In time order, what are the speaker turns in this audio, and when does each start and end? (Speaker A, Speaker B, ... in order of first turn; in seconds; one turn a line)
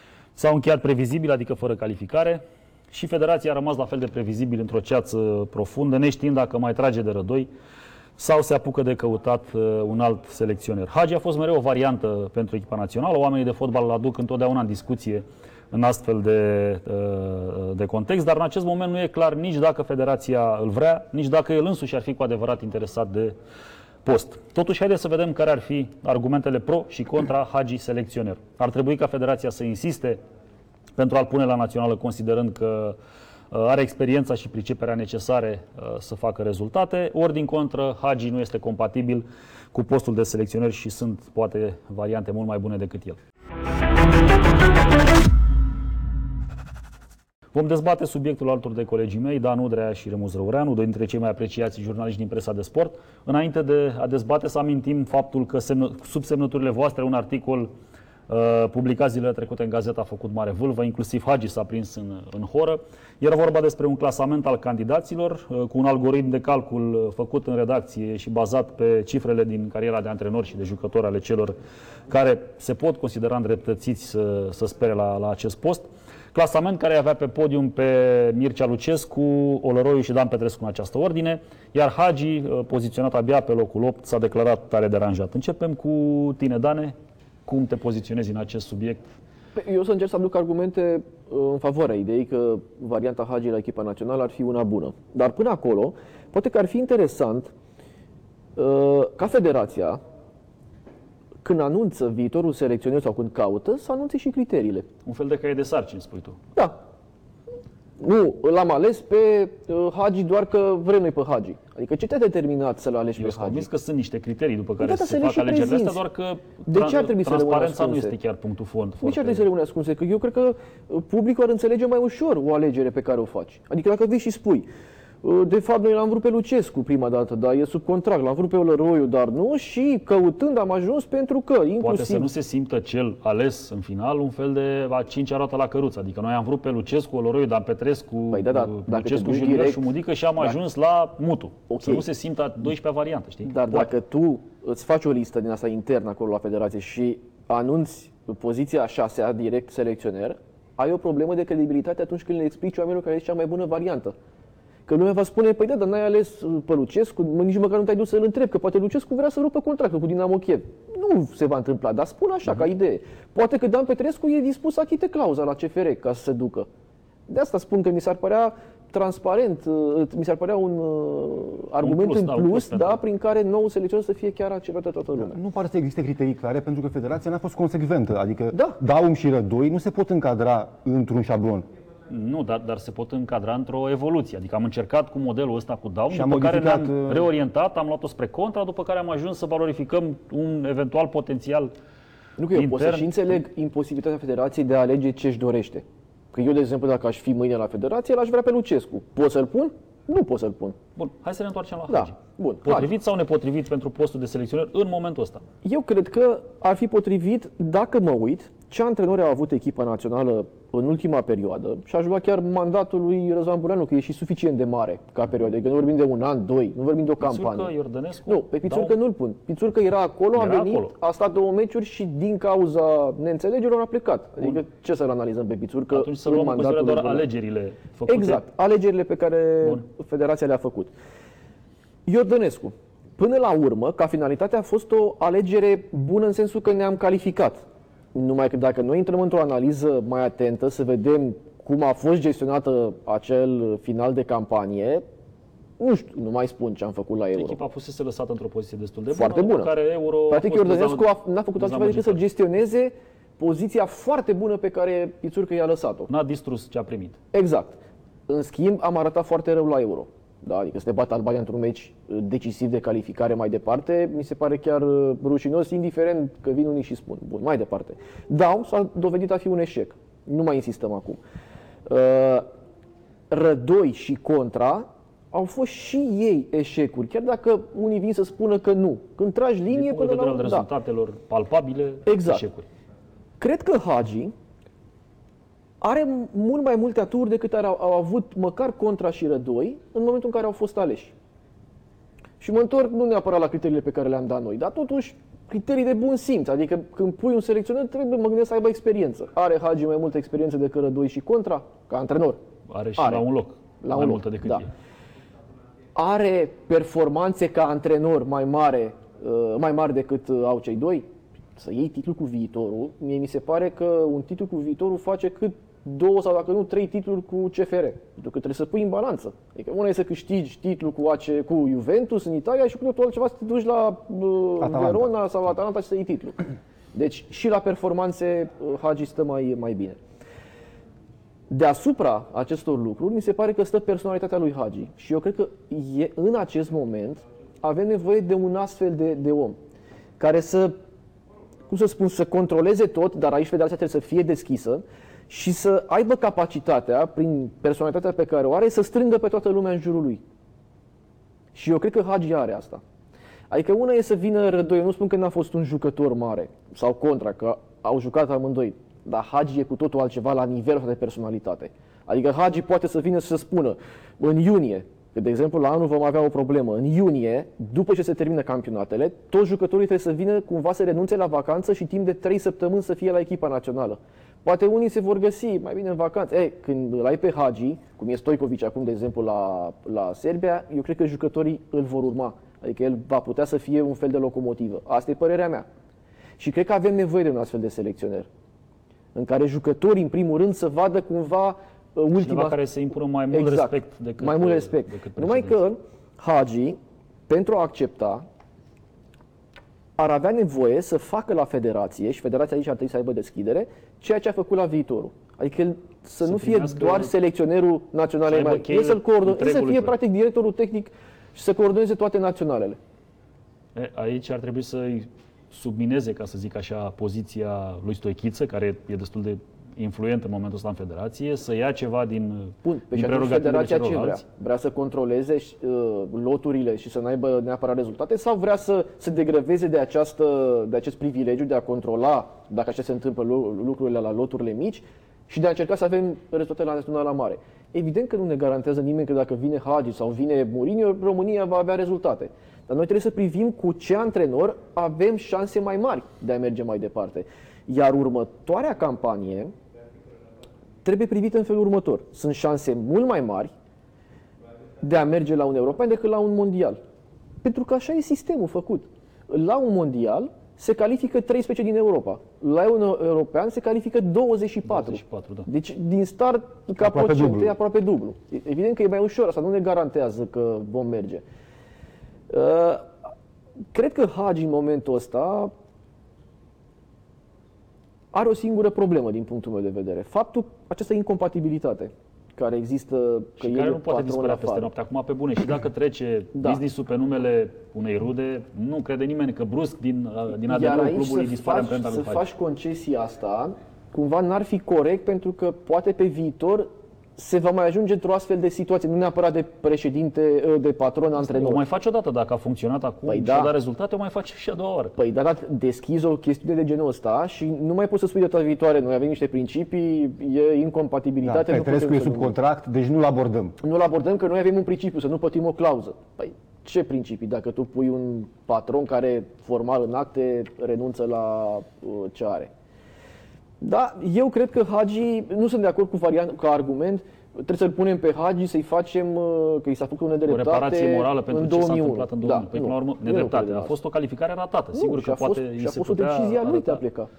Speaker A: 0.3-7.5
Speaker A: 8.2-23.3
Speaker A: 24.0-30.2
Speaker A: 30.9-33.0
Speaker A: 33.5-43.2
Speaker A: 47.5-57.7
Speaker A: 58.3-71.5
Speaker A: 72.1-86.9
Speaker A: 87.5-89.1
Speaker B: 89.5-97.5
Speaker B: 98.5-100.0
Speaker B: 101.4-104.9
Speaker A: 105.0-106.4
Speaker B: 108.0-113.7
Speaker A: 113.2-119.5
Speaker B: 114.8-116.0
Speaker B: 116.7-118.1
Speaker B: 119.0-124.7
Speaker B: 125.2-132.3
Speaker A: 131.8-143.9
Speaker B: 138.3-139.8
Speaker B: 141.7-142.1
Speaker B: 143.4-154.1
Speaker B: 154.9-166.7
Speaker B: 167.3-175.4
Speaker A: 171.8-173.0
Speaker C: 175.2-181.7
Speaker A: 182.1-191.7
Speaker C: 186.1-187.3
Speaker B: 192.4-200.8
Speaker A: 192.5-193.3
Speaker A: 201.0-205.4
Speaker B: 201.9-202.9
Speaker B: 205.6-217.7
Speaker A: 217.2-219.0
Speaker B: 218.3-227.3
Speaker A: 220.3-220.9
Speaker A: 225.9-228.4
Speaker B: 228.1-230.9
Speaker B: 232.1-245.0
Speaker B: 245.8-247.6
Speaker A: 247.3-252.2
Speaker B: 249.1-249.7
Speaker B: 250.3-256.1
Speaker A: 256.1-257.2
Speaker B: 257.3-271.2
Speaker B: 271.9-272.5
Speaker B: 273.3-280.7
Speaker A: 279.7-282.6
Speaker B: 282.1-282.4
Speaker B: 283.4-284.3
Speaker B: 285.8-291.1
Speaker B: 292.4-302.4
Speaker A: 302.7-304.7
Speaker B: 303.0-303.2
Speaker B: 303.8-304.6
Speaker B: 305.9-330.0
Speaker C: 324.6-325.1
Speaker B: 331.5-339.6
Speaker B: 340.2-340.7
Speaker B: 341.7-350.2
Speaker B: 351.5-352.8
Speaker B: 353.5-385.6
Speaker B: 386.4-388.3
Speaker B: 389.1-392.6
Speaker A: 392.2-395.6
Speaker B: 393.3-398.2
Speaker B: 400.0-412.8
Speaker A: 406.2-407.1
Speaker A: 408.3-409.9
Speaker A: 413.7-424.2
Speaker B: 422.6-449.5
Speaker B: 450.8-453.5
Speaker B: 454.8-456.8
Speaker B: 457.4-471.2
Speaker A: 464.6-465.5
Speaker C: 466.8-467.5
Speaker B: 472.3-472.9
Speaker B: 473.7-475.5
Speaker B: 478.1-484.7
Speaker A: 483.4-492.3
Speaker B: 486.3-486.6
Speaker B: 490.4-501.6
Speaker A: 501.2-504.9
Speaker B: 503.1-503.5
Speaker B: 505.0-512.3
Speaker C: 511.2-513.5
Speaker B: 513.6-522.5
Speaker B: 523.6-533.7
Speaker A: 530.3-536.8
Speaker B: 534.7-537.1